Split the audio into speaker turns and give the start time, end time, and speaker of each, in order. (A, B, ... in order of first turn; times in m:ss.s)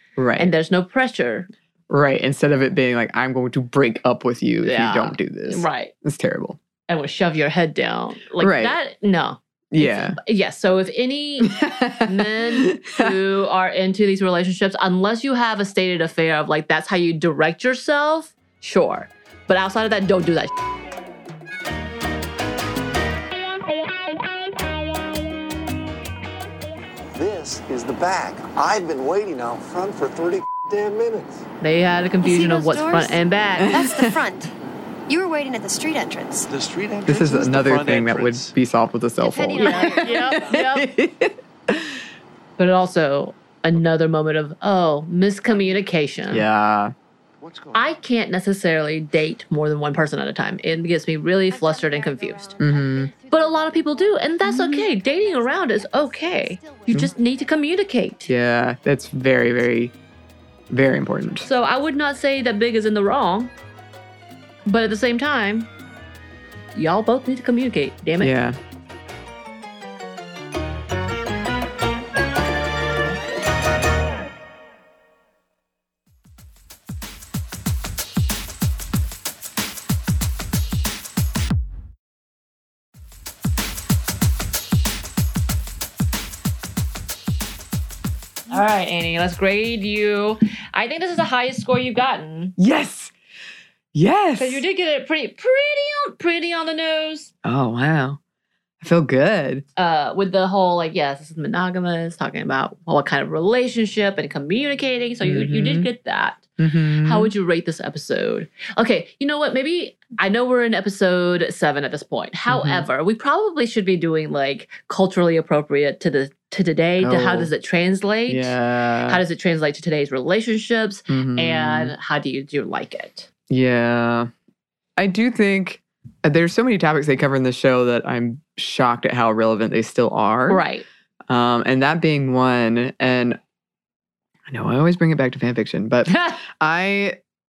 0:00.2-0:00.5 A
0:00.4-0:01.5 B
0:01.9-0:06.6 A
0:04.6-0:05.9 B
0:06.9-0:20.5 B
0:08.4-0:08.8 A
0:09.7-0:10.2 A
0:11.4-0:13.1 A
0:27.2-0:31.4 C
0:31.6-0:33.9 B
0:32.2-0:33.2 D
0:33.6-0:34.2 A
0:33.7-0:34.5 D
0:35.1-0:36.5 D
0:36.5-0:38.5 E
0:37.0-0:42.0 A
0:39.2-0:40.5 D
0:39.6-0:40.9 B
0:42.6-0:46.5 B
0:45.5-0:45.8 D
0:46.3-0:46.9 A
0:47.7-0:52.6 B
0:51.5-0:57.6 D
0:52.6-0:53.1 A
0:53.3-0:58.3 B
0:58.3-0:59.9 A
1:00.7-1:01.5 A
1:01.4-1:03.5 B
1:04.6-1:05.7 B
1:06.7-1:08.3 B
1:08.2-1:08.6 A
1:28.5-1:32.5 B
1:32.6-1:33.1 A
1:33.9-1:34.6 A
1:34.4-1:37.3 B
1:37.4-1:38.2 A
1:38.8-1:39.6 A
1:39.7-2:03.3 B
1:45.2-1:45.9 A
1:46.6-1:47.3 A
1:52.5-1:52.9 A
1:57.0-1:57.5 A
1:58.3-1:59.2 A
2:01.1-2:01.9 A
2:03.5-2:04.3 A
2:05.0-2:10.7 A
2:10.5-2:10.8 B
2:11.3-2:13.4 A
2:14.5-2:17.2 A